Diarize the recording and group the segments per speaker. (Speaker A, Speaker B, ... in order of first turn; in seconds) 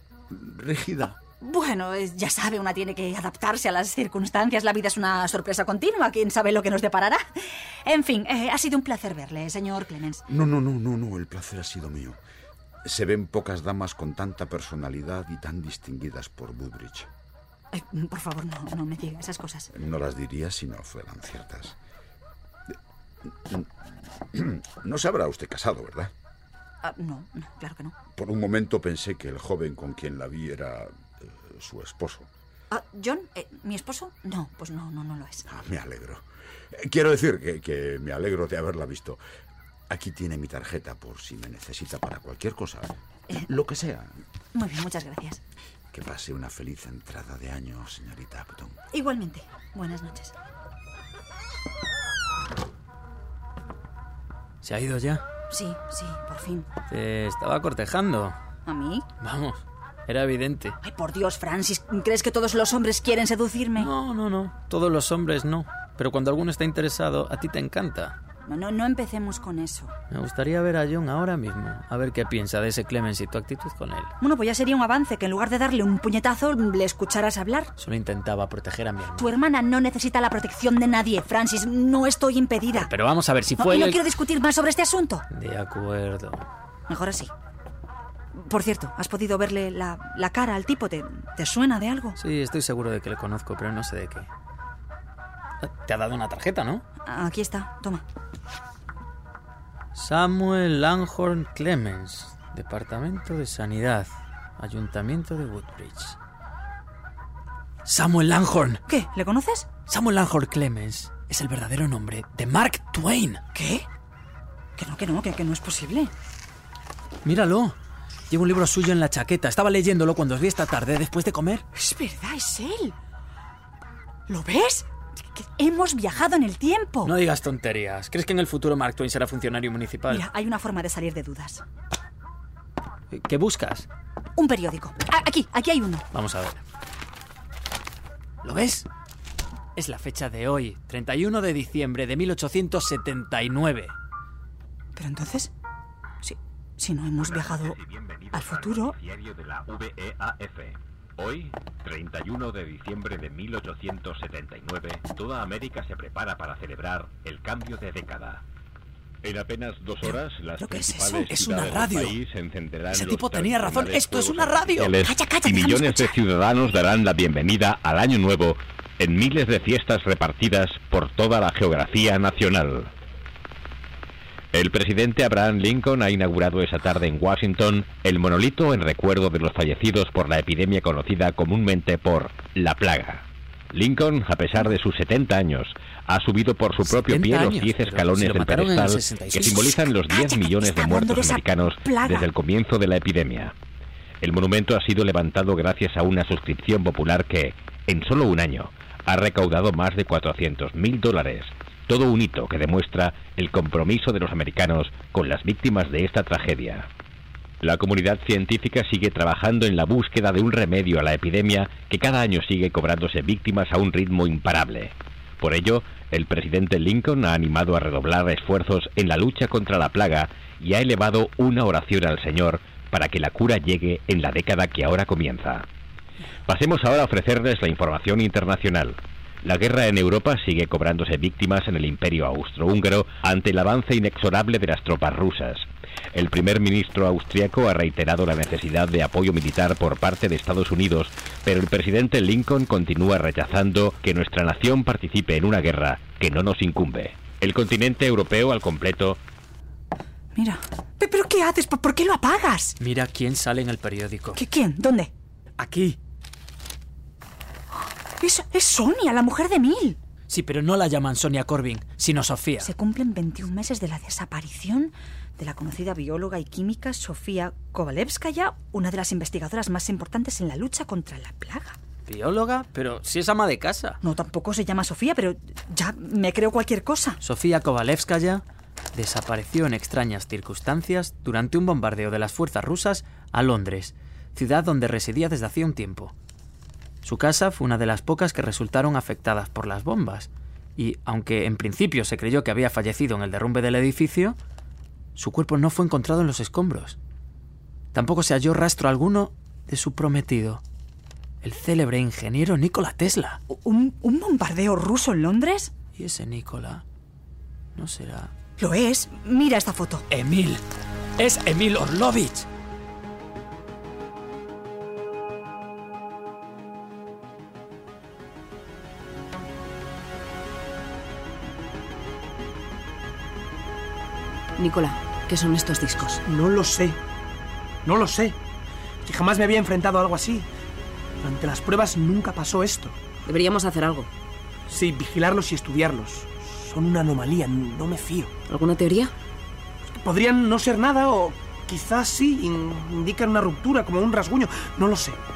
Speaker A: 0.3-1.2, 10.3-12.2, 12.8-17.1, 19.7-21.8, 23.3-23.7, 24.3-26.1, 28.2-32.3, 35.5-39.2, 39.9-44.1, 45.9-48.8
Speaker B: 1.4-10.2, 17.7-19.7, 26.8-28.0, 32.7-35.5, 44.5-45.4, 48.9-50.3, 55.5-56.7, 58.7-59.1, 60.8-63.9, 68.5-69.9, 74.2-77.7, 79.2-82.9, 83.6-85.2, 86.9-87.3, 88.4-92.2, 97.1-98.0, 108.9-109.7, 113.5-113.9, 114.8-116.1, 121.8-122.9, 124.3-127.1, 130.1-131.6, 134.4-136.1, 144.9-145.5, 146.2-147.8, 148.3-148.9, 160.0-161.5, 165.0-166.2, 189.4-192.3, 250.3-252.8, 254.3-255.1, 257.7-260.0, 262.6-271.8, 274.0-277.2, 303.5-305.7, 308.6-310.1
Speaker C: 54.6-55.2, 56.9-58.4, 59.2-60.8, 63.8-68.1, 70.1-74.1, 77.8-79.3, 82.8-84.0, 85.3-86.4, 92.2-94.3, 95.6-96.8, 99.9-106.2, 107.8-108.8, 109.9-113.4, 117.2-117.8, 118.3-121.6, 127.0-130.3, 133.1-133.9, 136.1-136.6, 138.4-138.9, 139.8-143.9, 161.3-162.2, 162.9-164.9, 186.8-189.6, 252.8-254.4, 255.6-256.0, 260.3-262.7, 272.1-274.0, 277.2-286.1, 287.0-294.4, 295.1-297.0, 297.9-300.6, 301.4-303.4, 305.9-306.9, 307.8-308.3, 310.1-310.6, 311.2-312.5
Speaker D: 147.2-158.4, 159.2-172.9, 174.5-193.5, 194.2-206.9, 207.6-225.7, 226.4-249.2
Speaker E: 324.6-326.2, 333.3-334.1, 338.5-339.1
Speaker F: 326.3-327.0, 327.9-328.4, 329.1-330.5, 331.2-332.9, 334.7-338.3, 340.0-345.2